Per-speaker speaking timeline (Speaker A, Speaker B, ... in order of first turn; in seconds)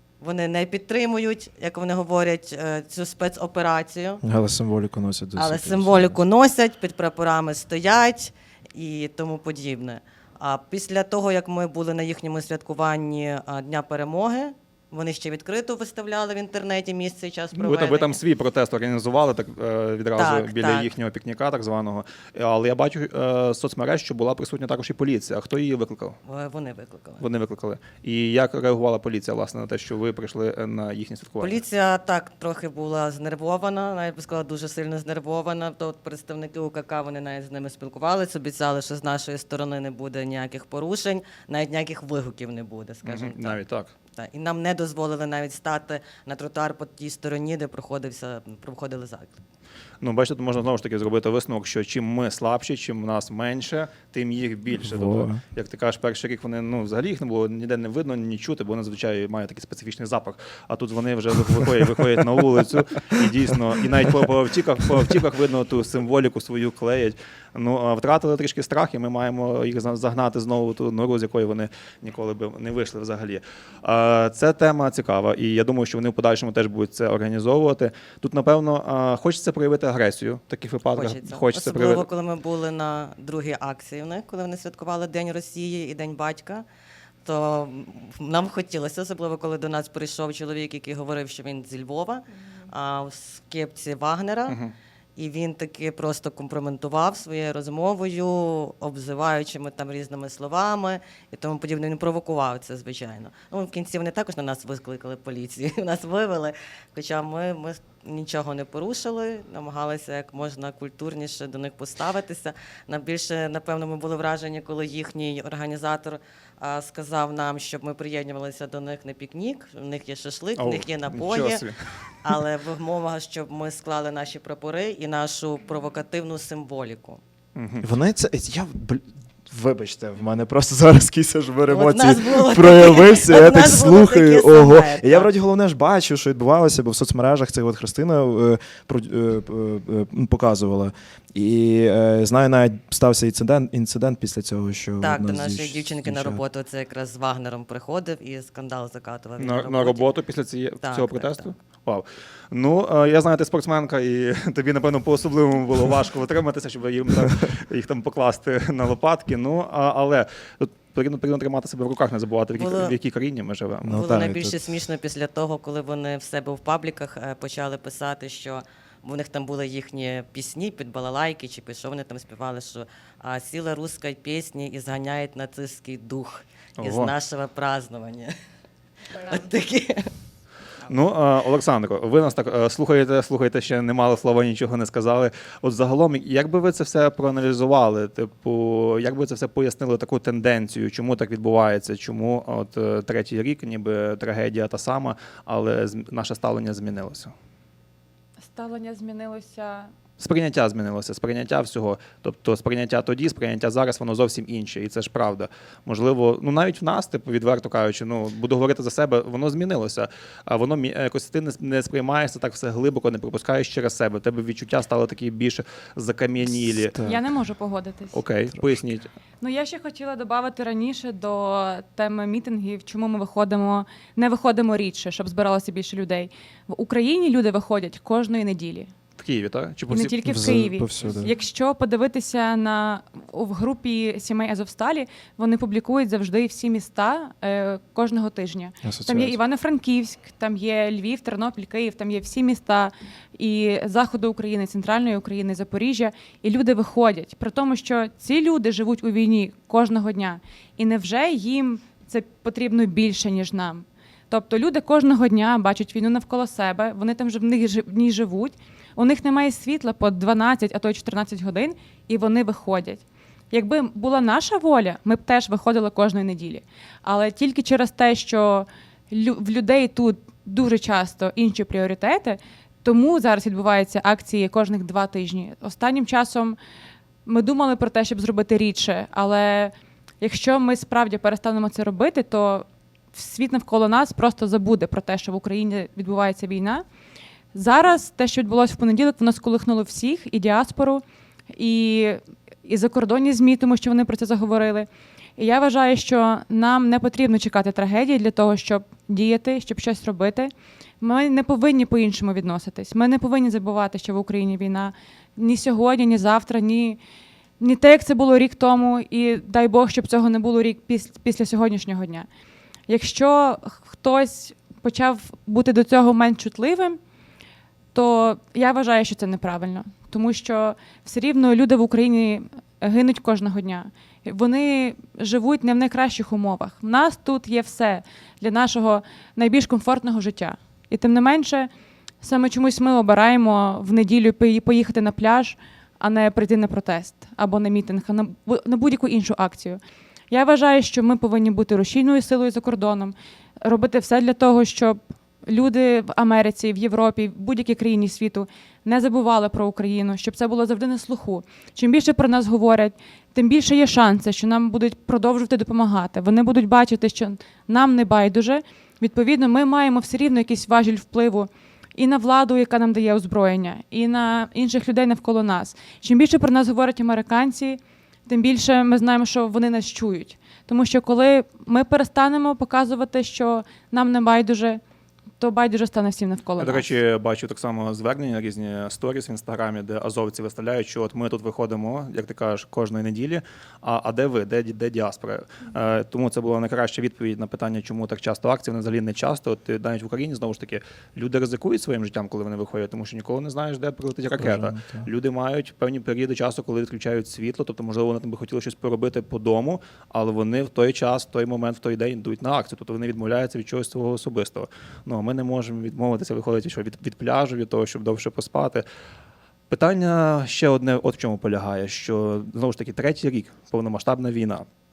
Speaker A: 0.2-4.2, 5.3-18.2, 20.2-20.9, 26.2-27.2, 31.4-43.6, 44.1-49.4, 80.9-86.6, 87.2-94.6, 95.2-121.6, 122.2-127.2, 131.7-135.3, 145.0-150.1, 150.8-151.5, 162.6-162.9, 163.9-178.3, 179.1-180.1
Speaker B: 4.2-6.2, 54.8-55.4, 127.8-146.4, 163.8-164.7, 216.9-217.2, 230.2-231.3, 238.8-239.4, 394.4-395.1
Speaker C: 17.5-26.2, 27.2-31.6, 43.0-43.9, 50.0-82.0, 94.5-94.7, 120.6-121.9, 127.5-127.8, 149.4-164.0, 176.8-177.1, 180.9-197.3, 200.2-217.0, 218.1-219.1, 229.2-230.2, 376.6-408.8, 409.7-414.6
Speaker D: 198.4-199.9, 217.0-218.2, 219.4-228.9, 229.9-276.6, 277.2-286.8, 287.5-307.0, 307.6-312.3, 312.9-317.0, 317.9-331.7, 332.2-374.8, 375.4-376.9